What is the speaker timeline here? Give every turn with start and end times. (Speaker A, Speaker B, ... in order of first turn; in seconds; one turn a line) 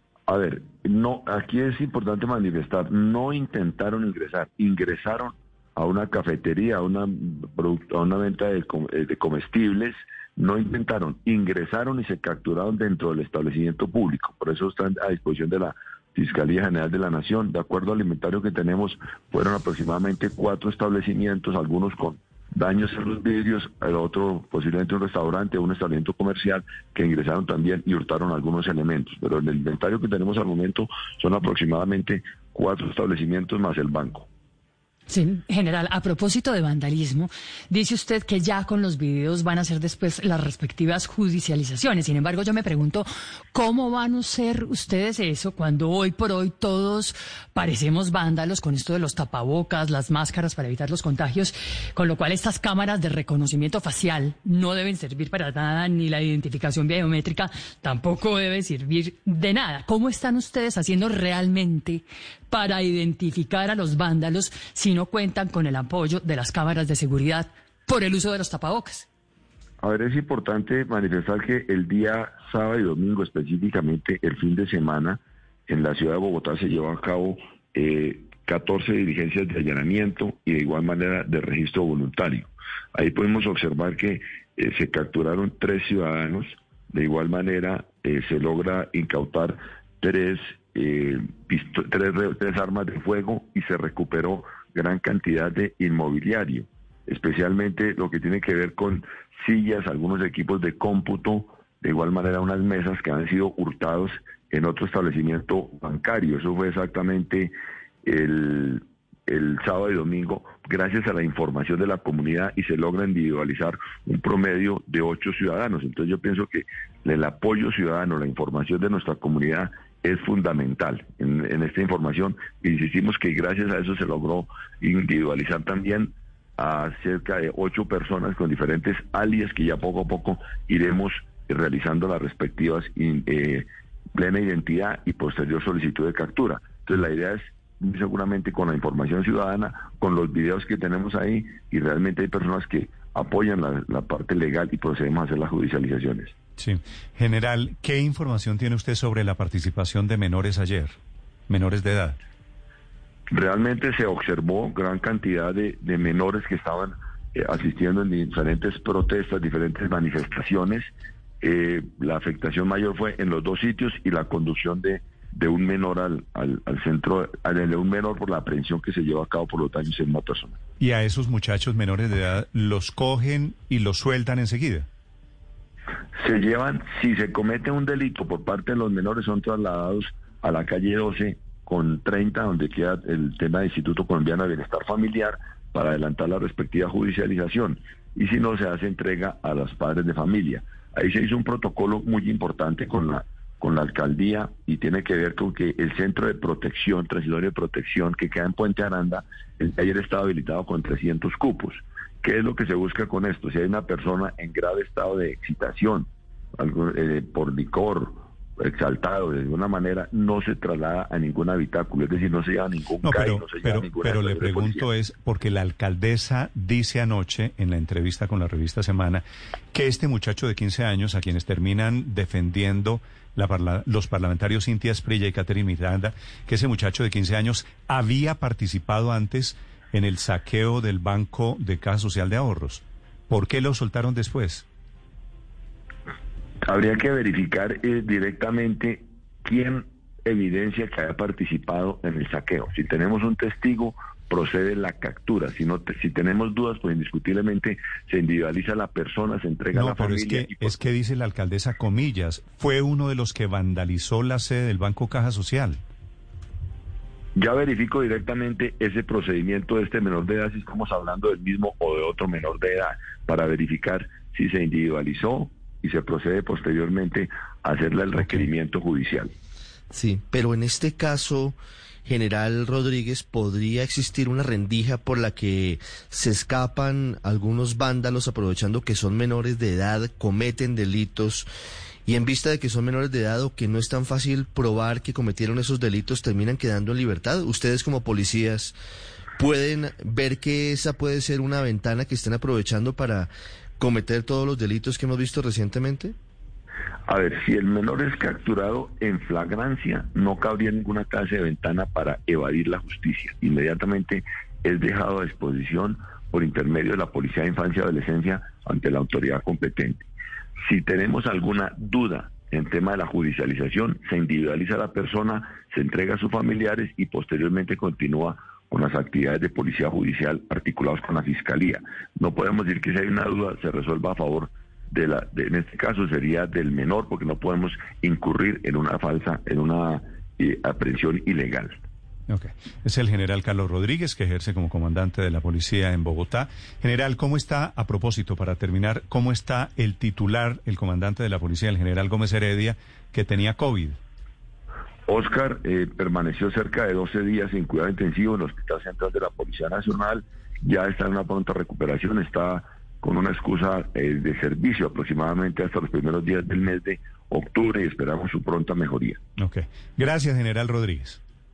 Speaker A: 0.3-34.3
Speaker B: 35.1-69.1
Speaker A: 69.8-146.3
Speaker C: 146.6-151.0
Speaker C: 151.5-152.2
Speaker A: 153.3-170.6
Speaker C: 170.8-174.9
Speaker A: 176.2-214.9
Speaker C: 213.0-234.7
Speaker A: 236.7-250.8
Speaker C: 249.7-255.8
Speaker A: 257.3-269.3
Speaker D: 269.9-281.5
Speaker D: 282.1-288.7
Speaker D: 289.4-296.1
Speaker A: 297.1-310.1
Speaker A: 310.6-331.8
Speaker C: 332.3-344.0
Speaker A: 345.1-359.2
Speaker C: 359.4-361.2